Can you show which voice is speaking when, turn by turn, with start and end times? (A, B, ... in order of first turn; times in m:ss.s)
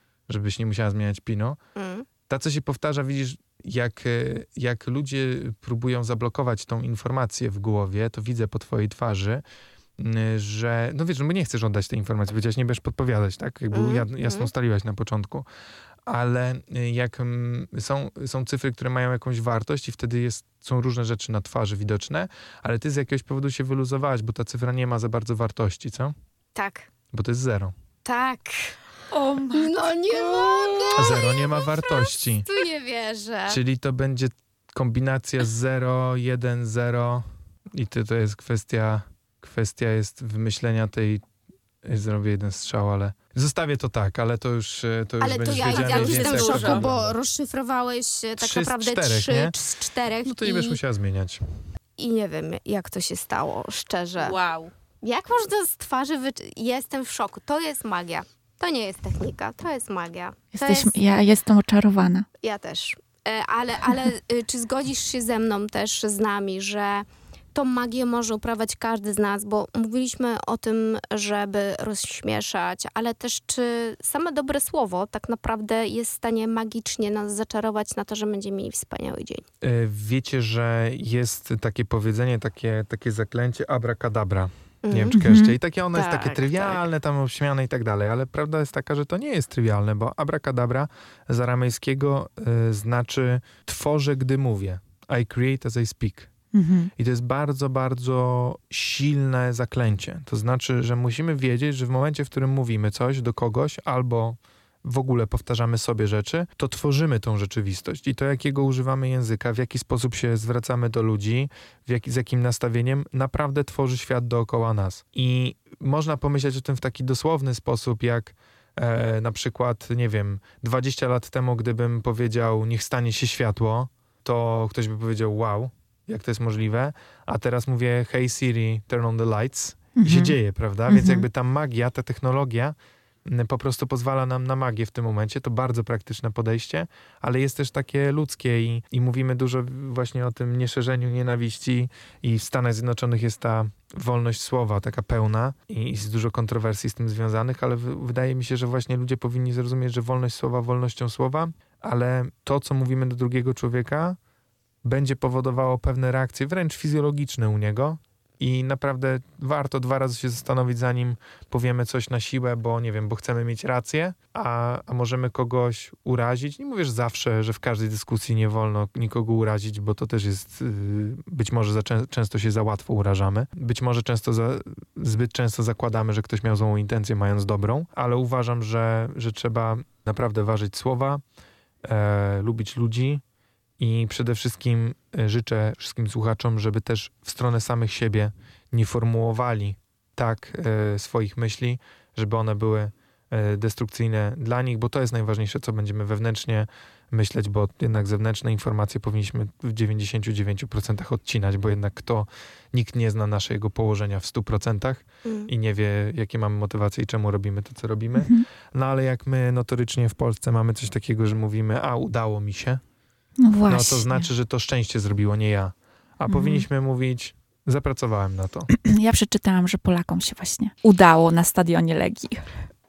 0:00.3-0:01.6 A
0:01.8-0:02.1 B
0:02.3-0:09.4 A
0:10.0-0:15.4 A
0:13.7-0:14.5 B
0:16.0-0:26.1 A
0:26.5-0:26.9 B
0:27.1-0:27.7 A
0:28.0-0:28.8 B
0:29.1-0:31.1 C
0:29.5-0:33.6 B
0:30.9-0:32.4 A
0:33.5-0:41.2 A
0:41.8-0:47.1 A
0:45.2-0:50.8 B
0:45.5-0:46.9 C
0:48.4-0:49.5 A
0:50.2-0:51.4 A
0:52.0-0:54.4 B
0:54.2-0:54.7 C
0:55.0-1:00.9 B
1:00.5-1:02.3 C
1:02.4-1:19.4 B
1:19.6-1:36.3 A
1:24.8-1:25.1 B
1:25.1-1:25.6 C
1:25.9-1:26.8 B
1:36.5-1:36.9 C
1:37.0-2:34.2 A
2:10.0-2:10.3 C
2:10.9-2:11.2 C
2:34.8-3:01.2 A
3:01.8-3:03.2 A
3:03.8-3:32.8 A
3:25.2-3:25.5 B
3:28.2-3:28.4 C
3:33.4-3:34.3 C
3:33.7-3:38.7 A
3:36.3-3:36.6 C
3:38.7-3:42.5 C